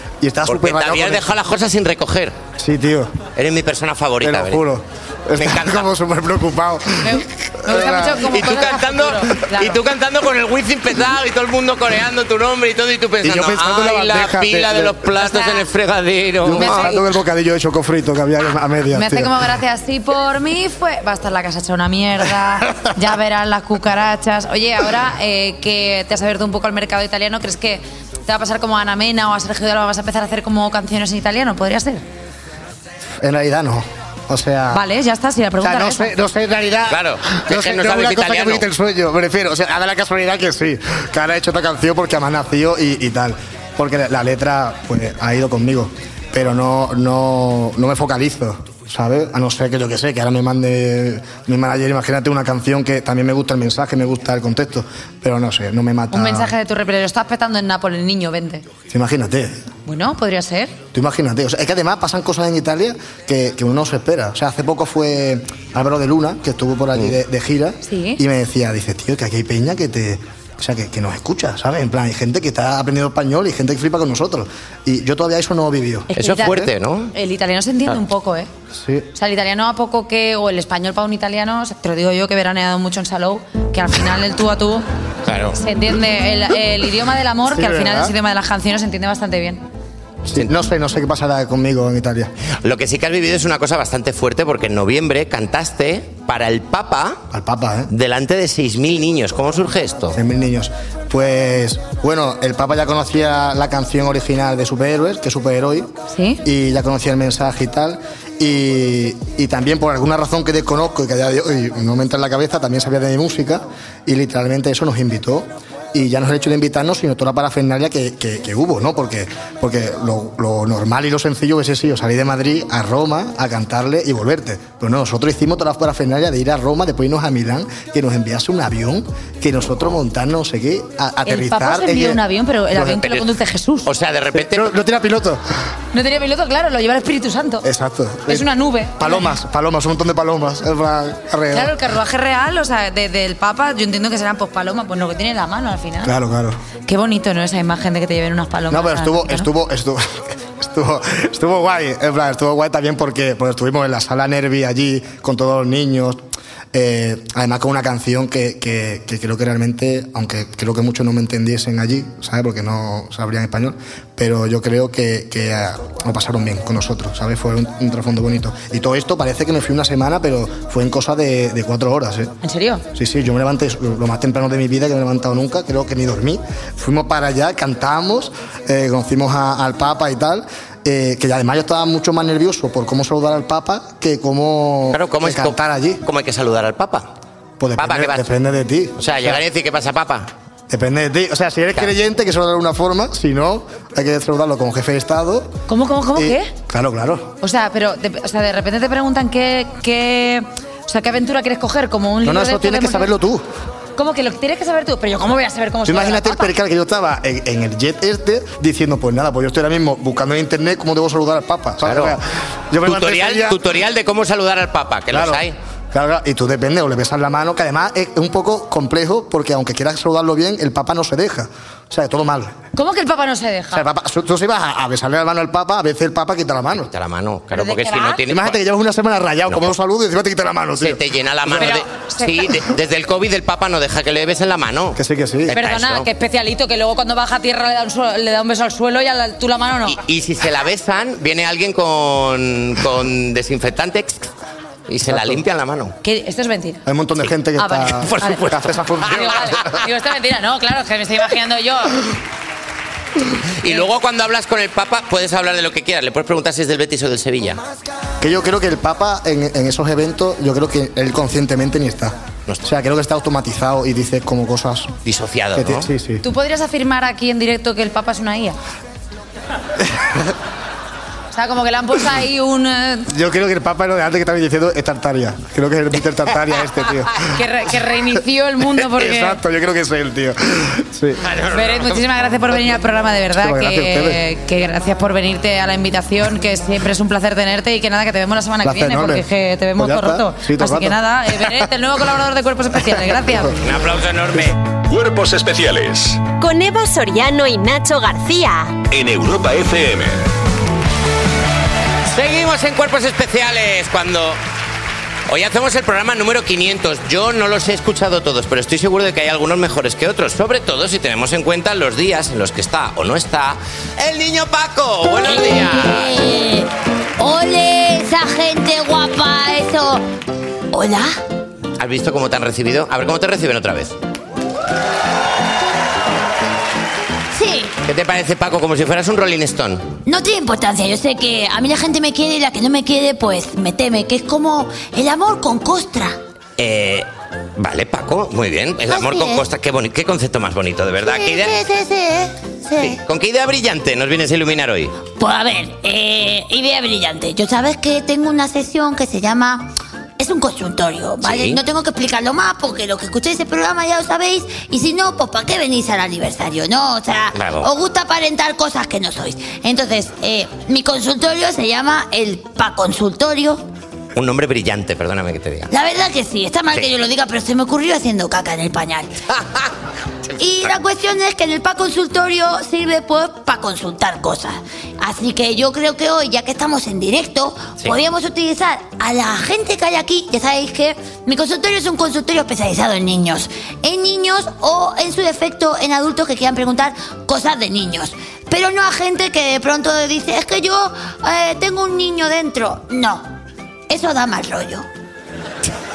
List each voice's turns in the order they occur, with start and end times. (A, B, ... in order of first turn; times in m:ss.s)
0:00.2-0:01.3 A
0:00.5-0:02.4 B
0:02.6-0:03.1 A
0:03.4-0:04.6 B
0:04.2-0:08.5 A
0:05.4-0:05.9 B
0:07.0-0:09.8 C
0:08.2-0:17.0 B
0:13.2-0:15.0 A
0:15.2-0:15.6 C
0:16.4-0:19.3 A
0:16.6-0:17.0 C
0:18.9-0:32.0 C
0:33.2-0:34.8 A
0:34.7-0:36.1 C
0:35.6-0:56.5 A
0:36.9-0:38.6 B
0:56.1-0:58.6 C
0:58.9-0:59.6 A
0:59.9-1:00.8 C
1:00.9-1:16.7 A
1:07.8-1:08.2 C
1:16.1-1:18.5 C
1:16.2-1:17.1 B
1:18.8-1:19.0 A
1:19.1-1:24.8 C
1:25.2-1:25.6 B
1:25.6-1:29.6 C
1:27.5-1:28.1 A
1:30.3-1:32.3 A
1:32.6-1:37.2 B
1:37.3-1:37.9 A
1:37.9-1:40.2 B
1:40.1-1:45.9 A
1:46.1-1:46.4 C
1:46.4-2:12.2 A
2:11.2-2:13.9 C
2:13.0-2:13.2 B
2:13.8-2:14.7 B
2:14.4-2:15.4 A
2:15.9-2:17.7 C
2:17.6-2:21.7 A
2:18.3-2:19.3 C
2:21.5-2:26.1 C
2:26.0-2:26.6 A
2:26.9-2:29.5 C
2:28.7-2:36.2 A
2:36.7-2:52.3 A
2:52.4-2:52.8 C
2:53.0-3:06.0 A
3:04.9-3:07.1 B
3:07.6-3:09.4 A
3:07.8-3:08.3 B
3:09.0-3:10.3 B
3:10.7-3:15.5 A
3:15.7-3:16.5 C
3:16.1-3:17.3 A
3:17.4-3:23.1 C
3:22.2-3:23.4 A
3:24.0-3:26.5 C
3:25.9-3:33.6 A
3:31.8-3:32.2 B
3:32.8-3:35.6 B
3:35.1-3:42.5 A
3:42.8-3:43.9 C
3:43.7-3:46.9 A
3:46.8-3:48.6 B
3:47.5-3:48.2 C
3:48.3-3:51.8 A
3:50.8-3:56.1 B
3:51.6-3:52.3 C
3:55.0-3:55.6 A
3:55.5-4:00.0 C
3:59.9-4:04.3 B
4:04.9-4:05.9 B
4:05.1-4:05.4 A
4:06.0-4:06.8 C
4:06.9-4:09.7 A
4:07.6-4:08.4 C
4:08.0-4:09.4 B
4:09.1-4:12.0 C
4:13.6-4:17.6 B
4:18.2-4:24.9 A
4:25.0-4:25.9 B
4:25.6-4:26.2 A
4:26.2-4:28.6 C
4:31.3-4:33.1 C
4:33.1-4:37.3 A
4:37.3-4:39.4 C
4:38.9-4:41.2 A
4:41.2-4:42.0 B
4:41.5-4:53.5 C
4:43.3-4:44.2 A
4:48.6-4:49.2 A
4:49.8-4:51.6 A
4:53.6-4:54.6 B
4:54.9-4:56.3 D
4:56.4-4:58.7 E
4:58.9-5:00.2 D
5:02.1-5:04.4 B
5:05.3-5:16.2 B
5:15.2-5:20.0 F
5:20.7-5:21.1 F
5:21.8-5:23.9 B
5:27.3-5:27.8 F
5:27.8-5:29.9 B
5:30.1-5:36.2 F
5:36.6-5:41.6 B
5:38.9-5:39.4 F
5:41.0-5:43.0 F
5:42.8-5:44.9 B
5:45.2-6:03.6 F
5:51.2-5:51.6 B
5:57.3-5:57.7 B
6:04.2-6:05.7 B
6:05.7-6:09.1 F
6:10.4-6:33.3 F
6:33.9-6:34.9 F